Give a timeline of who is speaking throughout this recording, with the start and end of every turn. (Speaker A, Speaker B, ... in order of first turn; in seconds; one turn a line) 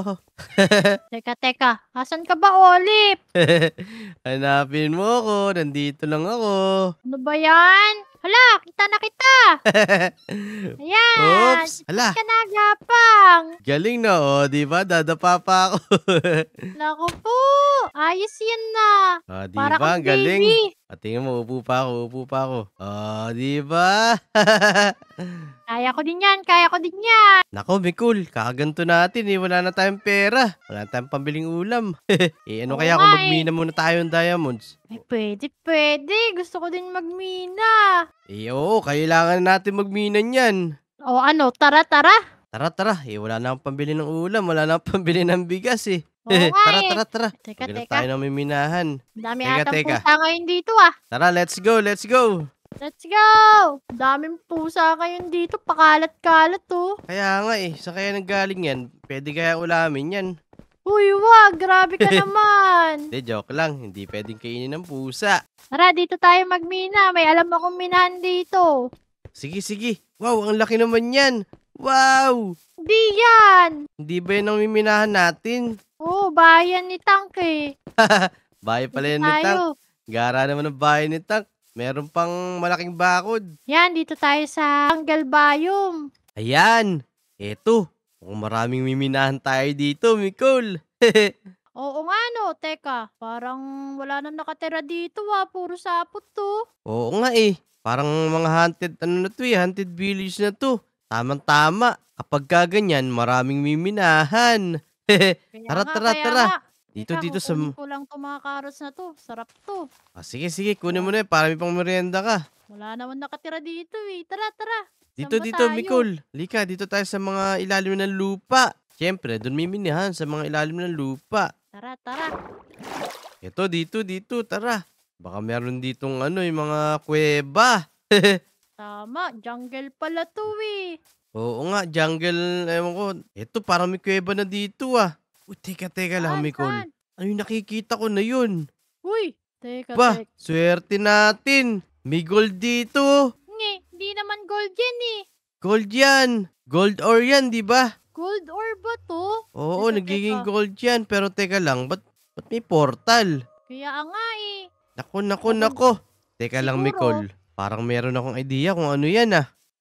Speaker A: 0.6-0.9
Speaker B: 1.1-3.2
Speaker A: 3.4-3.7
Speaker A: 4.3-6.5
Speaker B: 7.1-9.4
Speaker A: 9.8-10.6
Speaker B: 10.8-13.5
Speaker A: 11.2-12.2
Speaker A: 13.7-16.4
Speaker B: 16.8-18.9
Speaker A: 19.4-25.4
Speaker B: 19.6-20.6
Speaker B: 25.7-27.2
Speaker A: 27.6-31.9
Speaker A: 32.5-34.8
Speaker B: 32.7-33.4
Speaker B: 34.9-37.8
Speaker A: 38.3-40.5
Speaker B: 41.1-42.1
Speaker A: 42.5-48.9
Speaker B: 46.3-48.0
Speaker B: 49.2-50.9
Speaker A: 49.5-50.0
Speaker A: 51.1-52.3
Speaker B: 52.8-56.9
Speaker A: 57.1-60.2
Speaker B: 60.9-63.0
Speaker A: 63.1-65.3
Speaker B: 65.7-68.7
Speaker A: 69.4-71.3
Speaker A: 71.8-72.4
Speaker B: 72.9-73.7
Speaker A: 74.0-75.6
Speaker B: 76.0-77.7
Speaker A: 78.1-79.6
Speaker B: 79.0-79.6
Speaker A: 80.1-83.4
Speaker B: 83.7-86.0
Speaker A: 86.4-86.9
Speaker A: 87.4-91.3
Speaker B: 91.8-96.5
Speaker A: 96.9-104.6
Speaker A: 105.2-107.7
Speaker B: 105.5-109.8
Speaker A: 110.2-112.4
Speaker B: 112.7-116.0
Speaker A: 115.2-121.5
Speaker B: 121.7-122.3
Speaker A: 123.4-128.3
Speaker B: 128.8-130.8
Speaker A: 131.4-138.5
Speaker B: 136.2-136.9
Speaker B: 139.1-140.2
Speaker A: 140.0-143.1
Speaker B: 143.5-145.2
Speaker A: 145.6-147.8
Speaker B: 148.2-149.3
Speaker A: 149.6-153.3
Speaker B: 149.8-150.4
Speaker B: 153.7-154.5
Speaker A: 155.0-159.4
Speaker B: 155.5-155.8
Speaker B: 156.6-157.2